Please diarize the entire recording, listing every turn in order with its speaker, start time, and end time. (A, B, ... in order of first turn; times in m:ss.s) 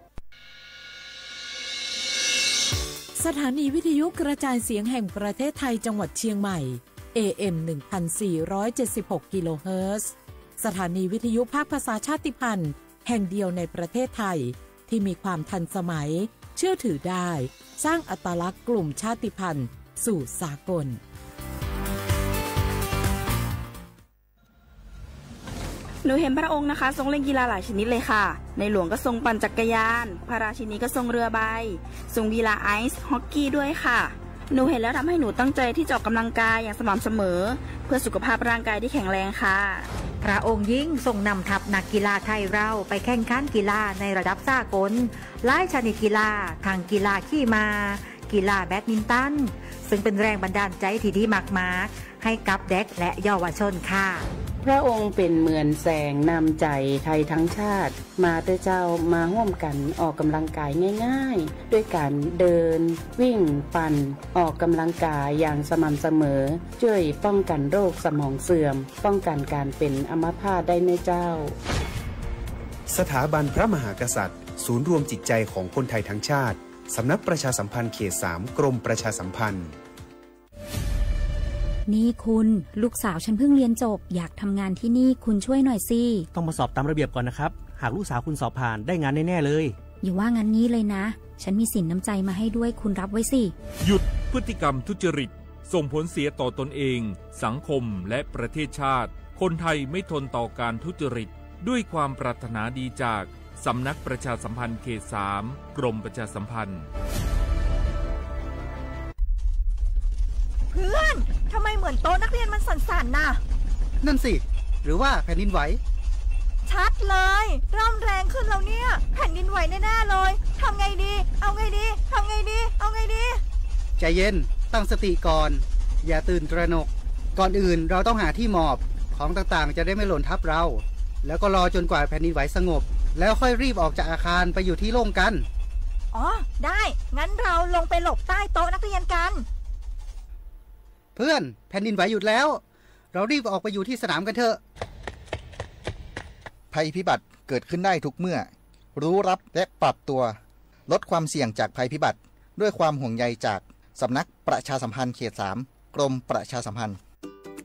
0:03.2-0:21.0 A
0:26.0-0:39.9 B
0:40.2-0:54.3 C
0:54.6-1:11.6 D
1:12.9-1:19.8 E
1:21.9-1:26.3 F
1:26.6-1:29.6 G
1:30.0-1:33.5 F
1:33.8-1:46.9 H
1:50.7-1:53.4 I
1:54.0-1:55.8 J
1:56.6-2:03.4 I
2:04.0-2:15.5 J
2:16.1-2:19.4 I
2:21.2-2:22.6 J
2:23.1-2:24.6 J
2:26.7-2:37.0 K